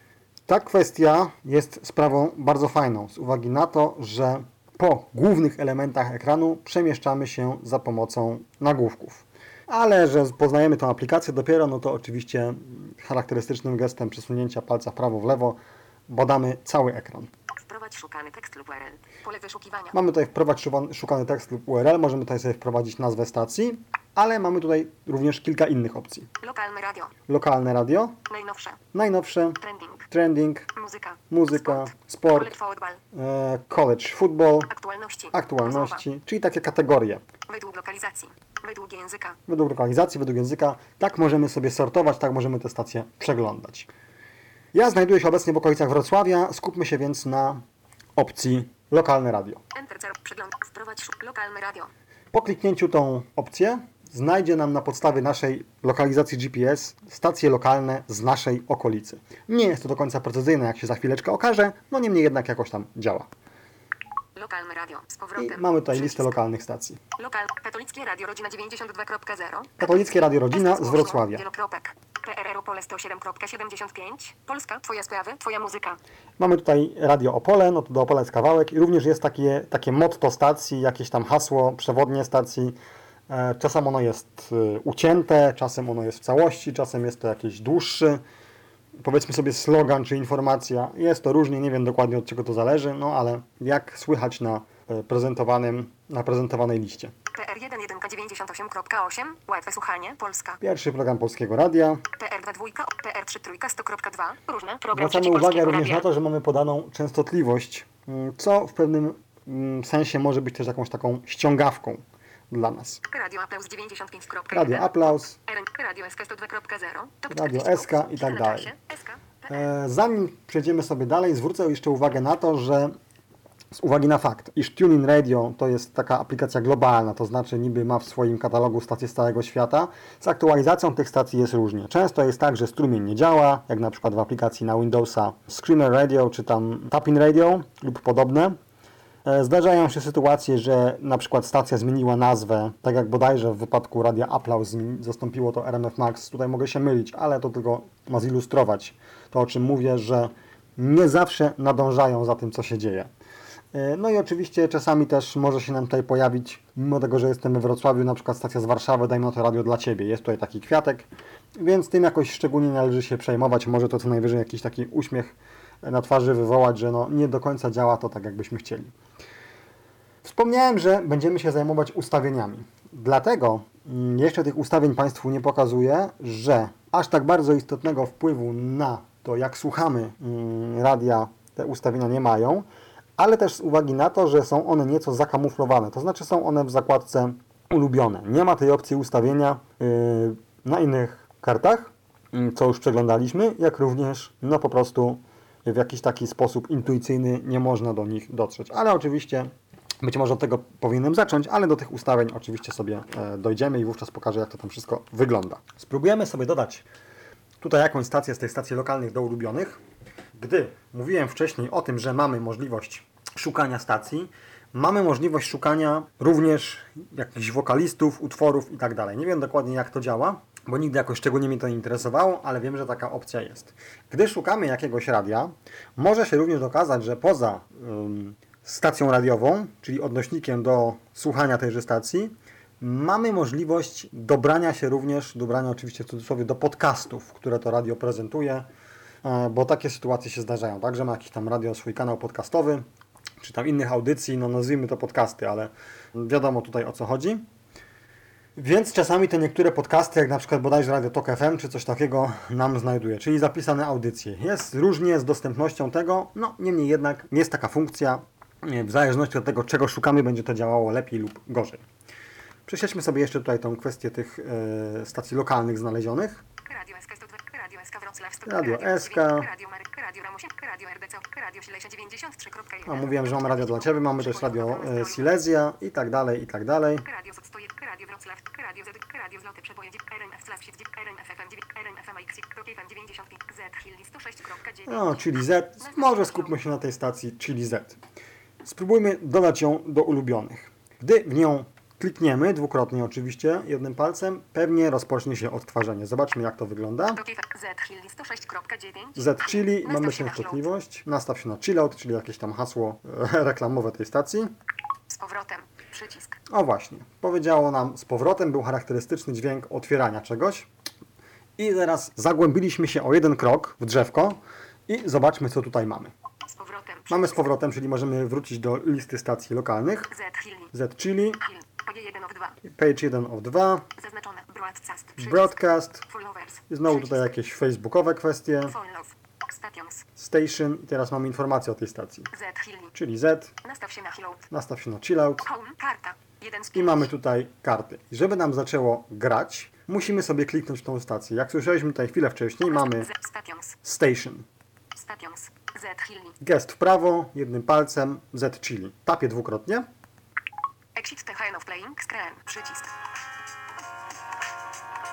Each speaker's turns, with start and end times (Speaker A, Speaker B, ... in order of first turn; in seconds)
Speaker A: 0.5-17.3, 19.9-26.3, 27.3-28.2, 28.9-30.7, 31.3-32.5, 33.1-34.7, 35.3-37.2, 39.5-43.9, 44.7-47.6, 48.2-49.6, 52.3-63.3, 65.4-67.0, 69.8-71.4, 76.4-82.8, 83.3-88.2, 89.0-97.1, 100.6-102.0, 104.9-113.0, 114.5-115.4, 117.3-118.7, 119.5-122.9, 123.8-138.6, 139.2-153.1, 153.7-168.9, 170.2-182.7, 183.2-199.5, 200.0-206.8, 207.6-209.8, 210.4-238.7, 239.2-242.8, 243.4-247.4, 248.6-261.8, 262.7-266.4, 268.5-269.5, 272.9-277.1, 284.9-288.0, 288.6-297.2, 299.2-304.5, 306.5-310.7, 311.6-316.1, 317.1-320.1, 320.7-321.4, 322.7-323.8, 325.2-326.0, 326.7-328.8, 330.2-332.3, 332.9-333.5, 334.5-335.5, 336.7-343.1, 343.8-344.5, 346.4-349.9
Speaker B: 17.5-20.0, 26.4-27.1, 28.3-28.8, 29.6-30.1, 30.7-33.0, 34.7-36.0, 37.5-39.4, 49.7-51.9, 64.3-66.3, 67.2-76.0, 97.3-100.6, 102.1-106.0, 113.1-119.7, 266.7-275.3, 277.1-285.3, 285.8-286.5, 297.1-300.7, 305.1-306.4, 316.4-317.5, 320.1-320.7, 321.4-322.6, 324.0-327.3, 328.6-330.0, 332.3-332.9, 333.6-334.5, 335.5-337.1, 342.7-343.8, 344.9-346.4, 350.9-352.9